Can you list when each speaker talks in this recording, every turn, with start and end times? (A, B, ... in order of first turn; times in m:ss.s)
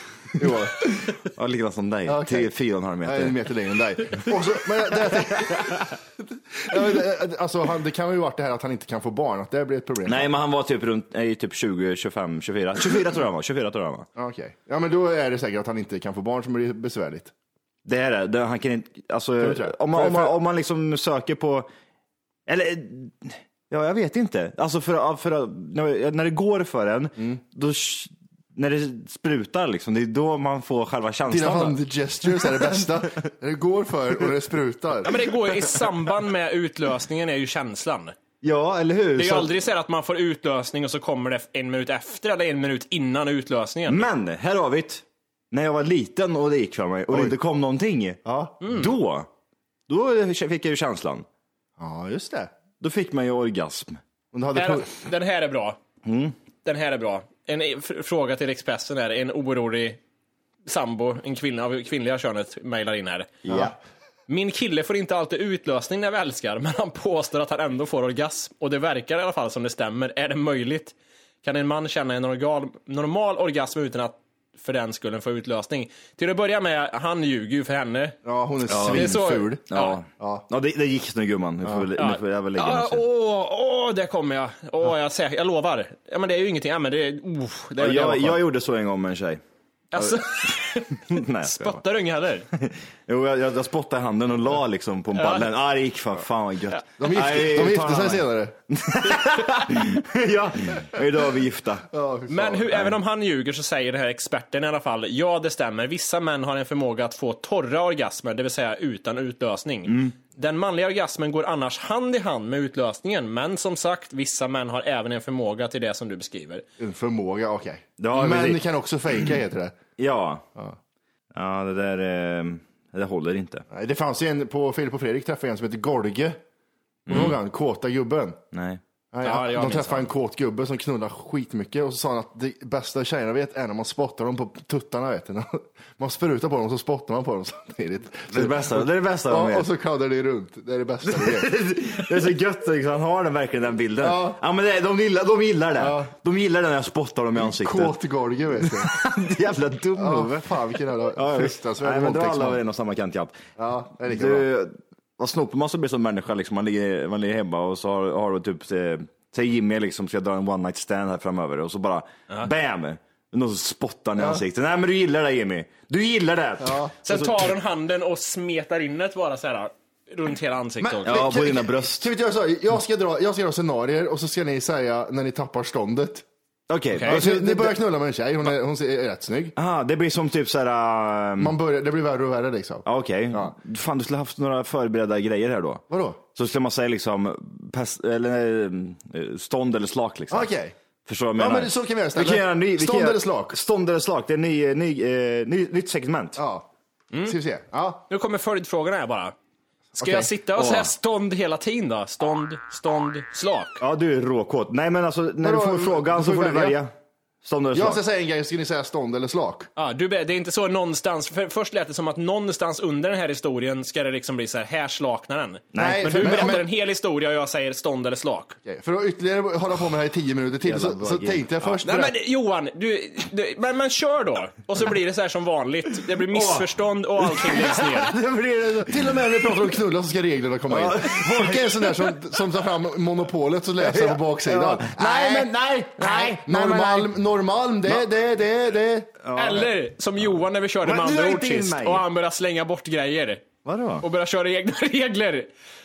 0:00.2-0:01.1 A
0:01.0-0:03.4 B
0:02.1-0:02.5 A
0:03.0-0:10.3 A
0:05.0-0:05.9 B
0:10.0-0:14.0 B
0:14.2-0:17.3 A
0:17.8-0:21.7 B
0:19.4-0:20.4 A
0:22.5-0:33.1 B
0:31.3-0:35.1 A
0:35.0-0:38.2 C
0:38.4-0:39.5 B
0:39.2-0:44.1 C
0:43.9-0:49.3 B
0:47.1-0:47.4 A
0:48.2-0:48.6 A
0:48.6-0:48.9 C
0:49.9-0:51.2 B
0:51.8-0:52.5 A
0:52.8-0:54.0 B
0:54.3-0:54.9 A
0:54.5-0:55.8 C
0:56.0-0:56.4 B
0:56.6-1:00.0 C
1:00.6-1:03.4 C
1:03.4-1:03.7 B
1:03.4-1:03.8 A
1:04.3-1:18.2 C
1:18.2-1:19.6 A
1:18.7-1:23.0 B
1:18.9-1:20.0 C
1:20.2-1:20.4 A
1:21.6-1:21.9 A
1:22.0-1:28.4 C
1:27.8-1:29.4 B
1:29.9-1:32.5 C
1:30.0-1:31.8 B
1:32.5-1:41.8 B
1:35.1-1:35.5 C
1:37.0-1:38.5 A
1:41.9-1:42.9 A
1:42.3-1:56.6 C
1:42.7-1:43.0 B
1:49.9-1:50.1 B
1:56.8-1:59.8 A
1:58.0-1:58.6 B
2:00.0-2:00.4 B
2:01.3-2:03.6 B
2:03.7-2:06.4 A
2:07.0-2:07.4 B
2:07.1-2:08.4 A
2:08.5-2:08.8 B
2:09.1-2:21.5 A
2:09.2-2:10.1 C
2:18.3-2:19.7 B
2:21.0-2:28.0 B
2:24.0-2:24.4 A
2:25.8-2:26.1 A
2:27.4-2:29.0 A
2:28.6-2:33.4 B
2:29.9-2:32.6 A
2:33.6-2:34.5 A
2:34.0-2:47.5 B
2:44.2-2:44.4 A
2:46.6-2:46.9 A
2:47.0-2:51.2 C
2:50.8-2:56.2 A
2:51.0-2:52.1 B
2:56.7-2:57.8 B
2:56.9-2:57.2 C
2:57.0-2:59.6 A
2:59.6-3:01.5 B
3:01.4-3:03.5 A
3:02.8-3:05.8 B
3:05.9-3:06.2 A
3:06.3-3:10.5 B
3:10.3-3:10.7 A
3:11.0-3:16.4 B
3:11.4-3:13.5 A
3:16.4-3:16.7 A
3:17.2-3:18.0 A
3:18.1-3:19.3 C
3:20.0-3:20.3 A
3:20.0-3:23.8 C
3:20.5-3:20.9 B
3:23.8-3:28.0 B
3:25.4-3:26.8 A
3:27.7-3:29.7 A
3:29.8-3:38.6 C
3:35.7-3:36.6 B
3:35.7-3:36.7 A
3:38.6-3:42.1 A
3:40.6-3:41.5 B
3:41.8-3:48.1 C
3:46.3-3:49.7 B
3:48.8-3:59.2 A
3:50.7-3:52.4 B
3:53.8-3:57.1 B
3:59.2-3:59.7 B
3:59.4-4:03.4 C
4:00.8-4:02.0 B
4:03.6-4:04.0 B
4:04.0-4:05.5 C